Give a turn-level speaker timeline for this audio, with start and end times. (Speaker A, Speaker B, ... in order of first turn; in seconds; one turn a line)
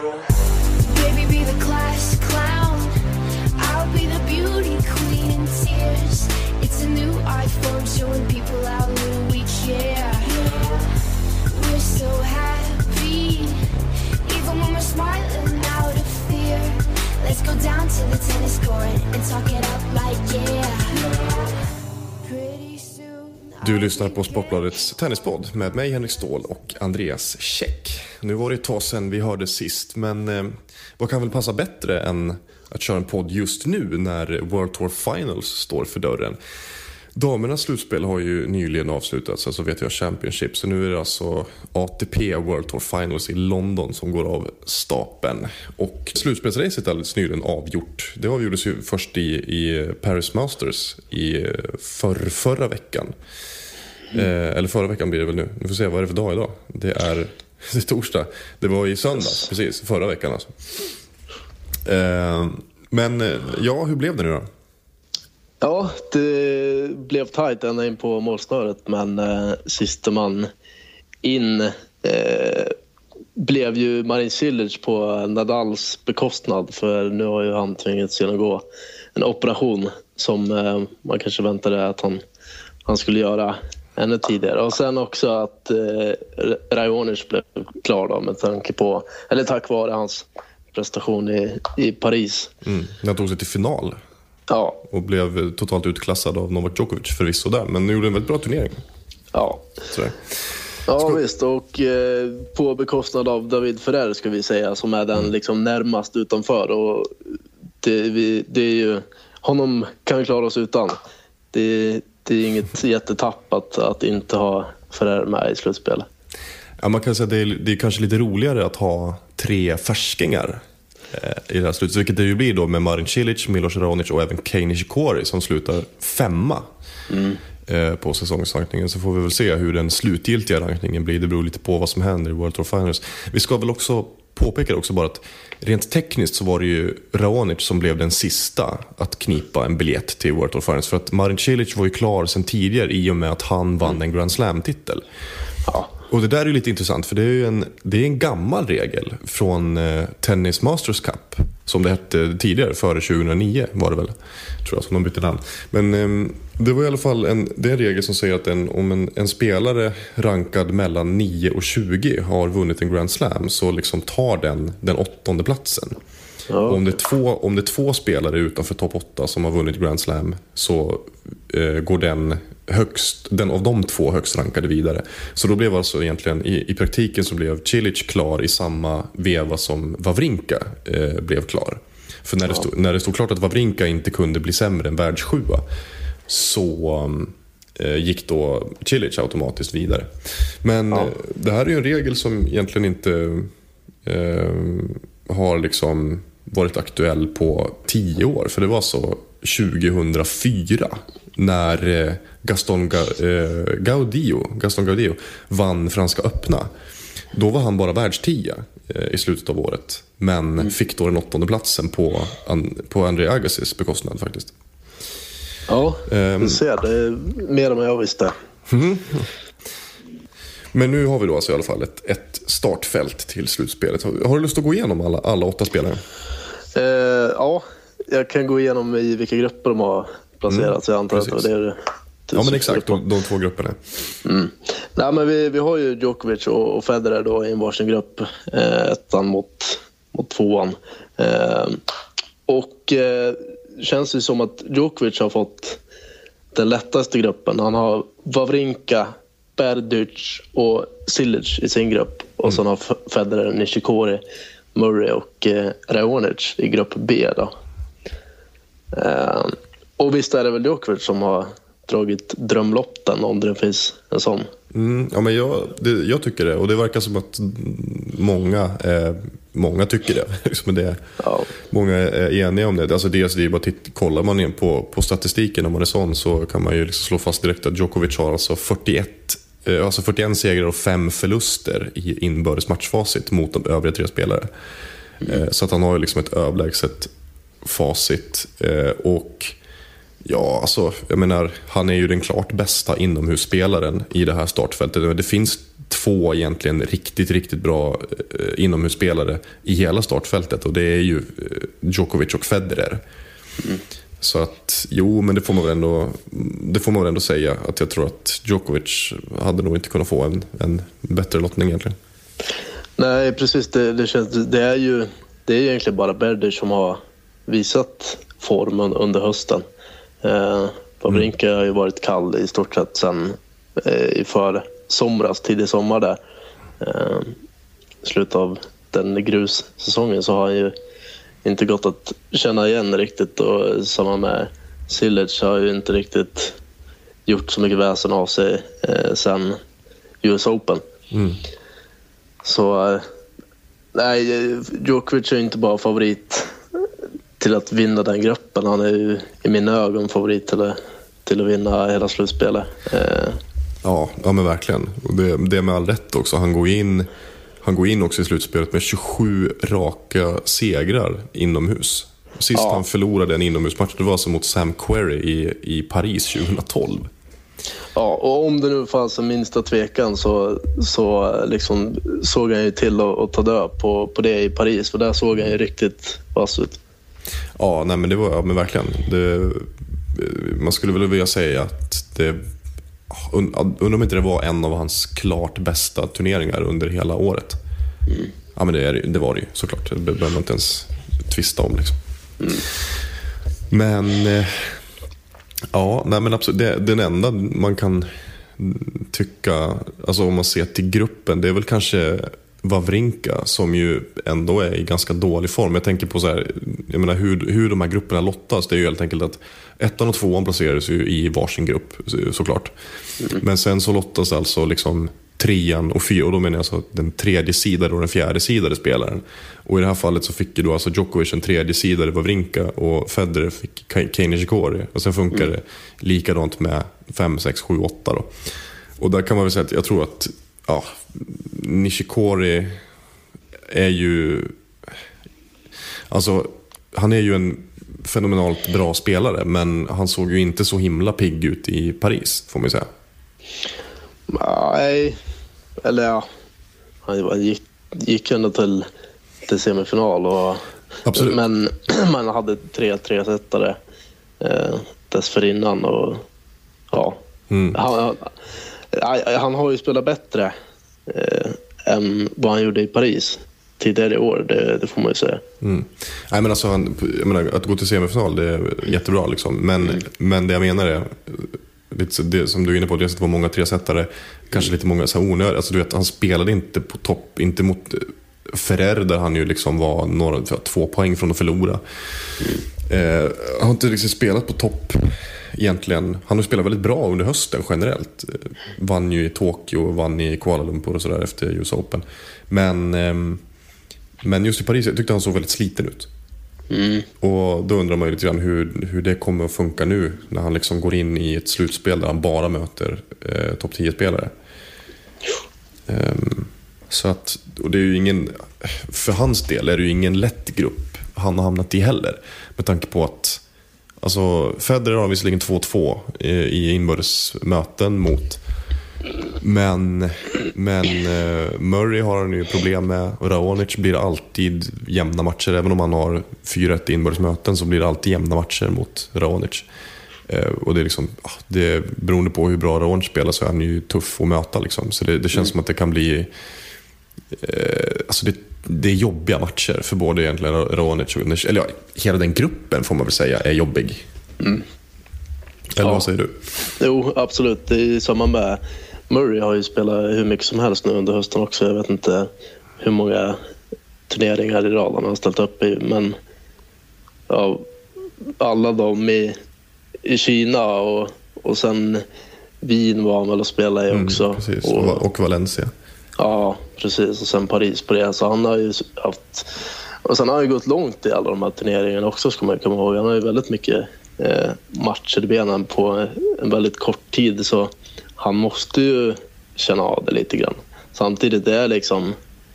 Speaker A: 0.8-2.9
Speaker A: 3.6-10.9
Speaker A: 11.5-13.6
Speaker A: 14.2-21.6
Speaker A: 22.2-25.0
Speaker B: 23.6-36.4
Speaker B: 37.1-53.1
Speaker B: 54.1-60.6
Speaker B: 61.9-64.5
Speaker C: 65.6-70.5
Speaker C: 71.2-72.8
Speaker C: 73.4-82.2
Speaker C: 82.8-92.5
Speaker B: 92.6-94.0
Speaker C: 94.5-94.8
Speaker B: 94.8-98.8
Speaker C: 99.3-99.7
Speaker B: 99.9-101.2
Speaker C: 100.9-107.1
Speaker C: 107.8-111.0
Speaker C: 111.5-116.1
Speaker B: 116.8-126.7
Speaker C: 127.1-127.4
Speaker B: 127.7-145.0
Speaker B: 146.1-166.0
Speaker C: 166.5-166.8
Speaker B: 166.7-185.6
Speaker B: 186.3-193.5
Speaker B: 194.1-206.7
Speaker B: 207.3-214.5
Speaker C: 215.7-218.3
Speaker B: 216.1-216.6
Speaker B: 218.7-219.3
Speaker B: 220.7-226.0
Speaker C: 226.8-233.0
Speaker B: 230.5-231.4
Speaker B: 232.3-233.8
Speaker C: 234.2-241.8
Speaker C: 242.5-245.8
Speaker C: 246.5-254.2
Speaker C: 254.8-257.5
Speaker C: 258.9-264.5
Speaker B: 264.7-271.0
Speaker C: 271.2-271.5
Speaker B: 271.6-284.5
Speaker B: 285.2-287.1
Speaker B: 287.6-289.6
Speaker B: 290.2-303.0
Speaker B: 304.2-312.0
Speaker C: 313.0-319.6
Speaker C: 320.2-326.2
Speaker C: 326.8-327.4
Speaker C: 328.0-330.7
Speaker C: 331.4-336.6
Speaker C: 337.3-339.6
Speaker C: 340.2-340.8
Speaker B: 341.1-341.4
Speaker C: 342.4-343.1
Speaker C: 343.9-346.6
Speaker C: 347.4-353.4
Speaker B: 353.8-357.1
Speaker B: 357.6-367.1
Speaker C: 362.5-362.8
Speaker C: 367.9-376.8
Speaker B: 377.6-382.4
Speaker B: 383.1-387.6
Speaker B: 388.6-392.0
Speaker B: 393.7-394.8
Speaker B: 395.7-412.7
Speaker B: 413.3-428.3
Speaker B: 429.0-432.8
Speaker B: 433.7-434.5
Speaker B: 436.1-442.9
Speaker C: 444.3-445.2
Speaker C: 445.8-446.3
Speaker C: 447.1-448.9
Speaker C: 449.4-450.6
Speaker B: 451.1-451.4
Speaker C: 451.1-453.8
Speaker C: 454.4-456.2
Speaker C: 456.9-457.2
Speaker B: 457.5-457.8
Speaker C: 457.7-458.3
Speaker C: 458.9-460.5
Speaker C: 461.1-465.4
Speaker B: 465.6-481.8
Speaker B: 482.8-493.4
Speaker B: 494.2-496.1
Speaker C: 496.7-497.1
Speaker B: 497.2-504.3
Speaker B: 505.9-513.4
Speaker B: 514.0-518.4
Speaker B: 519.4-529.7
Speaker B: 530.3-536.3
Speaker B: 537.3-544.0
Speaker B: 545.7-546.4
Speaker C: 545.8-546.1
Speaker C: 546.8-553.4
Speaker C: 554.1-556.1
Speaker C: 557.3-557.7
Speaker C: 558.4-559.4
Speaker C: 560.0-562.0
Speaker C: 562.6-565.0
Speaker B: 563.9-565.7
Speaker C: 566.2-569.5
Speaker C: 570.0-582.1